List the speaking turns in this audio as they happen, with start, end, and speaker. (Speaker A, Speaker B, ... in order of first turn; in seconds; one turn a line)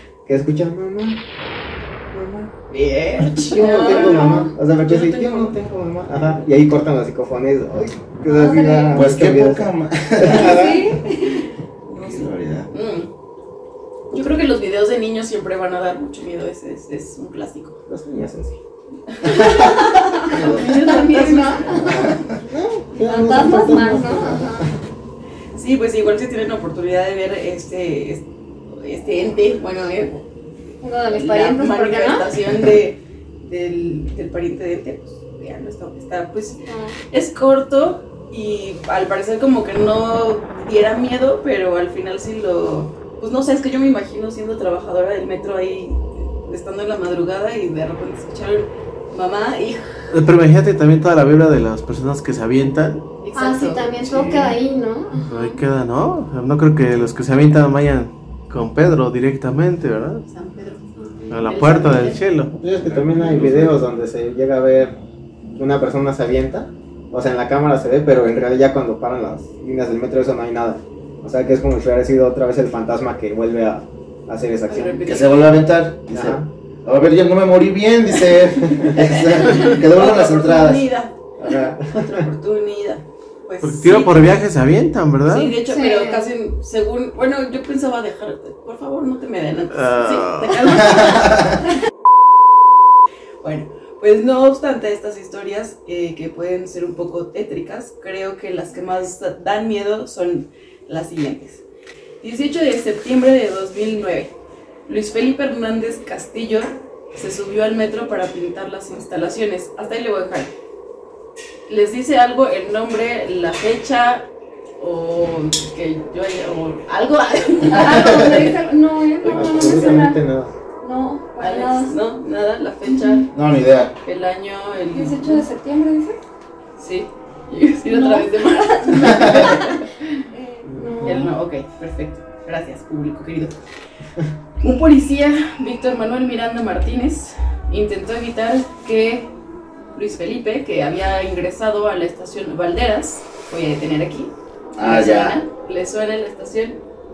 Speaker A: 0.2-1.2
Speaker A: 2.1-2.5
Speaker B: 2.7-5.5
Speaker A: 3.3-11.0
Speaker C: 3.5-4.5
Speaker C: 8.2-9.1
Speaker D: 8.9-10.7
Speaker B: 10.2-10.6
Speaker C: 10.2-11.4
Speaker B: 11.9-13.1
Speaker D: 12.0-12.7
Speaker B: 14.1-17.8
Speaker A: 17.9-18.6
Speaker B: 19.1-22.1
Speaker C: 19.2-22.1
Speaker D: 20.3-20.7
Speaker D: 21.8-22.2
Speaker A: 22.5-24.8
Speaker C: 23.0-24.7
Speaker B: 25.5-30.2
Speaker C: 30.8-32.3
Speaker B: 31.1-36.6
Speaker C: 36.6-36.9
Speaker B: 37.1-50.0
Speaker E: 50.1-53.1
Speaker B: 53.2-54.2
Speaker C: 53.3-55.6
Speaker E: 54.1-54.5
Speaker E: 55.2-60.2
Speaker B: 60.3-62.2
Speaker E: 61.3-63.8
Speaker A: 62.5-65.0
Speaker A: 65.6-75.1
Speaker B: 74.7-75.6
Speaker D: 75.0-80.9
Speaker A: 76.1-76.5
Speaker B: 78.7-84.4
Speaker A: 81.5-82.2
Speaker E: 83.6-85.6
Speaker B: 85.2-91.3
Speaker C: 85.7-86.3
Speaker E: 89.7-90.8
Speaker D: 91.0-91.3
Speaker B: 93.4-101.6
Speaker B: 102.2-104.3
Speaker B: 104.9-110.5
Speaker B: 111.7-114.3
Speaker B: 114.8-118.5
Speaker C: 117.7-120.2
Speaker D: 117.7-118.4
Speaker B: 119.2-120.0
Speaker A: 119.2-120.5
Speaker C: 120.8-121.9
Speaker B: 121.4-123.3
Speaker C: 122.8-123.2
Speaker D: 123.3-123.9
Speaker B: 124.0-125.4
Speaker C: 124.9-126.2
Speaker B: 126.8-129.9
Speaker C: 127.9-131.3
Speaker D: 129.1-129.4
Speaker A: 130.7-131.3
Speaker B: 131.0-133.6
Speaker B: 134.6-139.3
Speaker B: 139.9-146.8
Speaker D: 144.8-145.4